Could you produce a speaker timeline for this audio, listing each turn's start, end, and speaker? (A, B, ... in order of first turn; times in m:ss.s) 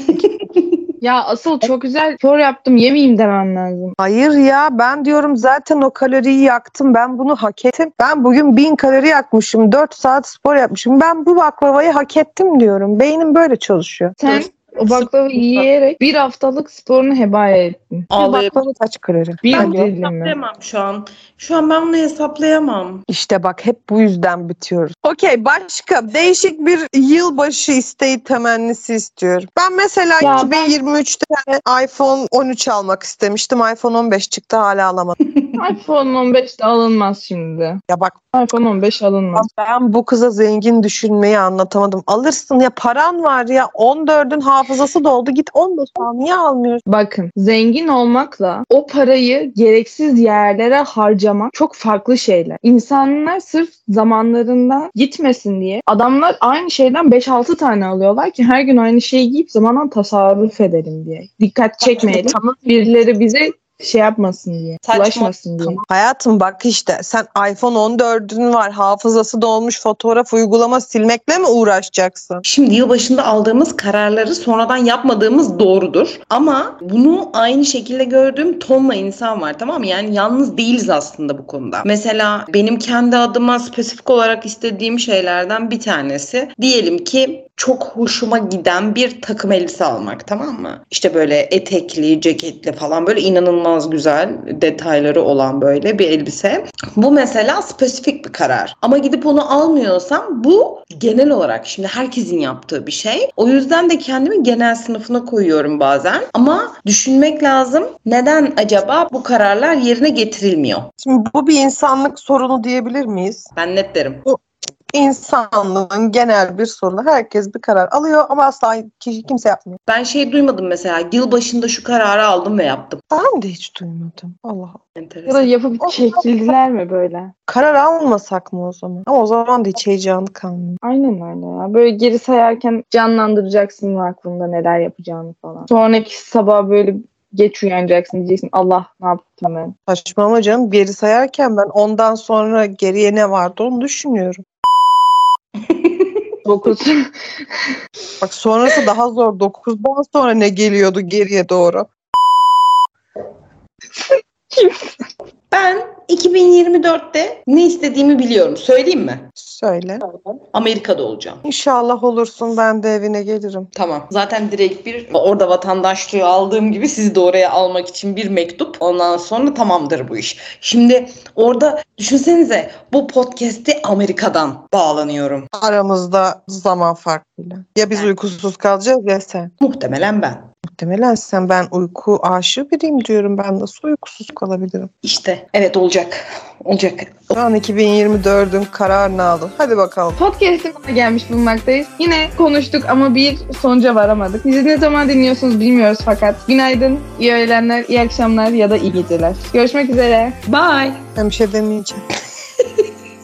0:00.2-0:00.6 A
0:01.0-0:03.9 B
0:04.0-0:14.4 C
0:14.2-0:18.1 B
0:14.9-0:15.6 A
0:18.1-0:18.6 A
0:18.1-0:19.9 C
0:19.4-0:20.4 B
0:19.4-0:23.0 A
0:23.1-0:35.2 C
0:30.2-0:30.7 B
0:35.6-0:37.8 B
0:37.9-0:38.2 C
0:38.3-0:39.5 B
0:39.3-0:46.8 C
0:46.9-1:05.8 B
1:01.8-1:02.6 C
1:04.8-1:05.3 A
1:05.6-1:12.4 C
1:12.4-1:50.9 A
1:51.0-1:53.5 C
1:53.6-1:54.2 A
1:54.9-1:59.8 C
1:59.9-2:03.0 A
2:03.1-2:04.8 C
2:05.0-2:05.5 A
2:05.3-2:07.3 B
2:05.8-2:06.2 C
2:07.5-2:10.8 C
2:10.8-2:19.7 B
2:19.9-2:24.4 C
2:25.7-2:26.1 A
2:26.4-2:26.9 B
2:28.2-2:31.9 C
2:34.5-2:35.0 B
2:35.5-2:39.2 A
2:39.4-2:40.0 C
2:40.1-2:41.4 A
2:41.4-2:43.7 C
2:43.7-2:55.5 A
2:55.5-2:59.5 C
2:59.6-3:00.4 A
3:00.7-3:04.9 C
3:05.0-3:07.4 A
3:07.3-3:10.2 C
3:10.2-3:20.4 B
3:20.4-3:21.0 A
3:21.2-3:22.0 C